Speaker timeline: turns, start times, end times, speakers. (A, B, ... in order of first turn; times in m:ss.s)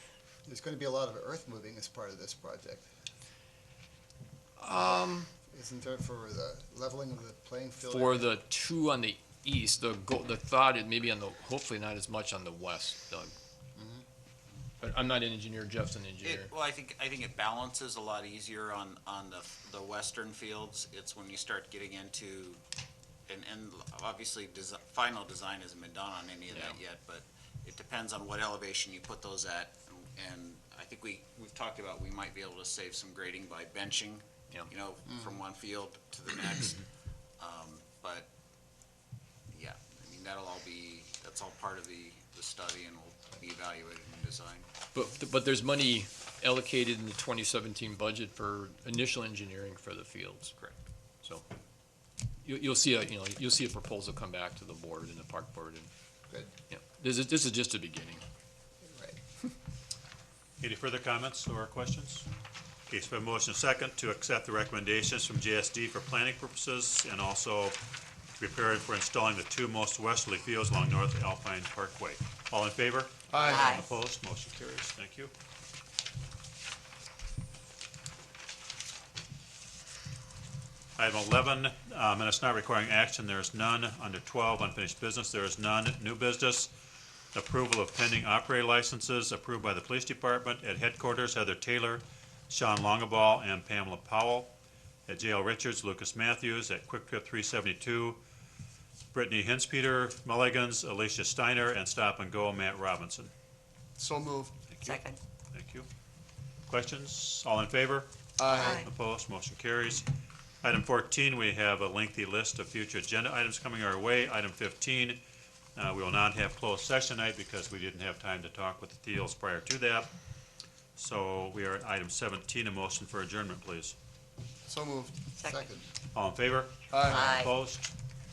0:00.5-0:02.9 A
0:04.6-0:05.3 B
0:05.5-0:08.3 A
0:07.9-0:13.3 B
0:13.8-0:14.0 A
0:14.8-0:16.5 B
0:16.2-0:22.6 C
0:23.3-0:36.9 C
0:26.5-0:26.8 B
0:35.1-0:35.4 A
0:37.4-0:38.3 C
0:39.5-0:44.7 C
0:44.9-0:50.6 B
0:52.4-0:55.9 B
0:56.7-0:58.2 B
0:58.9-0:59.2 A
1:00.6-1:02.3 D
1:02.9-1:07.8 D
1:08.4-1:15.3 D
1:13.3-1:13.8 E
1:13.4-1:13.9 F
1:21.0-1:26.7 D
1:27.3-1:34.5 D
1:35.1-1:38.2 D
1:39.1-1:43.3 D
1:44.0-1:44.9 E
1:44.7-1:45.0 D
1:44.8-1:45.2 F
1:45.5-1:45.9 D
1:46.7-1:48.1 D
1:48.4-1:48.9 E
1:48.5-1:48.9 F
1:48.7-1:50.1 D
1:50.6-1:55.2 D
1:55.8-2:00.1 D
2:01.0-2:04.0 D
2:04.7-2:05.3 E
2:05.4-2:05.7 F
2:05.4-2:05.8 A
2:06.1-2:07.9 D
2:06.9-2:07.4 E
2:07.1-2:07.6 F